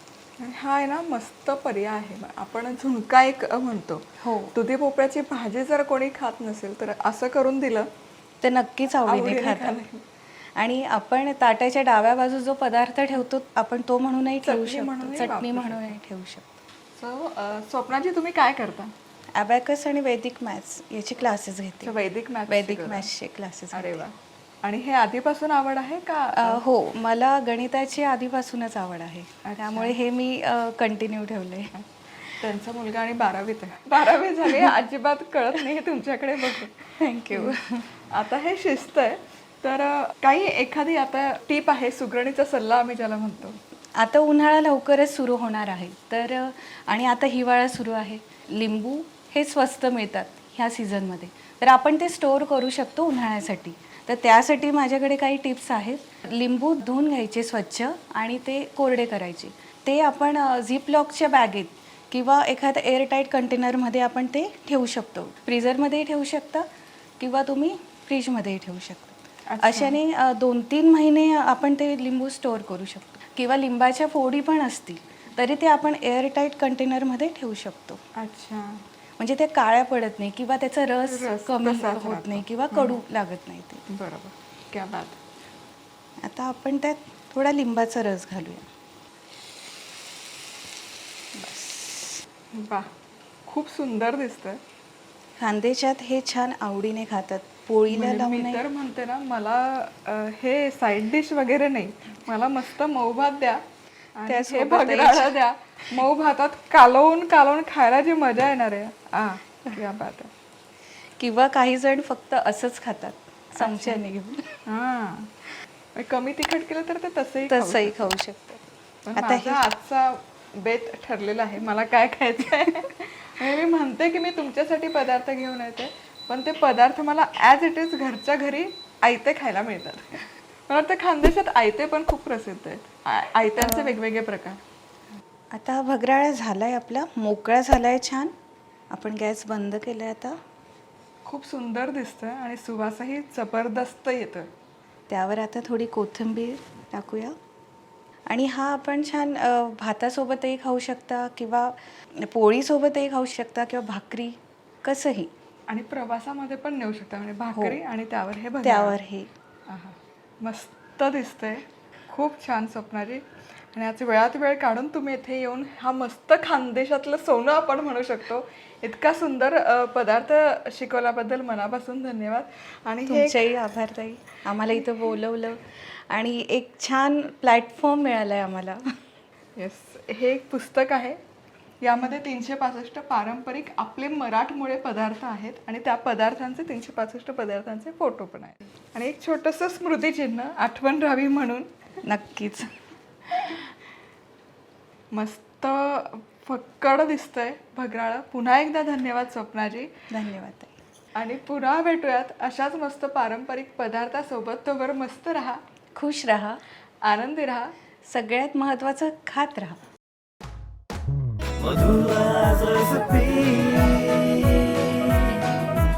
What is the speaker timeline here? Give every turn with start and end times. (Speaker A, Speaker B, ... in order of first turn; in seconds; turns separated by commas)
Speaker A: 0.4-7.9, Speaker B: 4.2-4.5, Speaker B: 8.4-9.8, Speaker A: 9.0-10.0, Speaker B: 10.6-16.5, Speaker A: 14.4-15.9, Speaker A: 17.0-18.9, Speaker B: 19.3-22.0, Speaker A: 21.8-23.1, Speaker B: 22.5-24.1, Speaker A: 23.7-26.6, Speaker B: 26.4-31.7, Speaker A: 29.4-29.9, Speaker A: 32.4-37.5, Speaker B: 37.0-37.9, Speaker A: 38.1-43.6, Speaker B: 44.0-66.7, Speaker B: 67.2-78.0, Speaker A: 69.5-70.0, Speaker A: 78.2-78.8, Speaker B: 79.2-83.8, Speaker A: 81.0-83.0, Speaker A: 83.9-85.2, Speaker B: 86.2-88.7, Speaker B: 91.3-92.2, Speaker A: 92.5-92.9, Speaker A: 93.5-94.6, Speaker B: 95.4-98.6, Speaker A: 97.9-103.6, Speaker A: 104.2-110.3, Speaker B: 104.3-105.3, Speaker B: 111.2-114.6, Speaker A: 113.6-114.0, Speaker A: 114.7-115.3, Speaker A: 116.0-118.1, Speaker B: 117.5-119.6, Speaker A: 119.0-134.6, Speaker B: 133.6-133.9, Speaker B: 135.5-138.3, Speaker B: 138.9-140.4, Speaker A: 141.2-144.5, Speaker B: 145.1-147.3, Speaker B: 148.3-155.3, Speaker A: 155.7-159.0, Speaker B: 158.6-159.3, Speaker A: 159.7-173.5, Speaker B: 173.1-178.9, Speaker A: 179.6-181.2, Speaker A: 181.8-191.7, Speaker B: 192.0-192.8, Speaker A: 195.1-199.9, Speaker B: 200.1-200.7, Speaker A: 201.1-205.6, Speaker B: 205.9-206.6, Speaker A: 207.0-207.7, Speaker B: 208.1-209.8, Speaker C: 211.6-215.3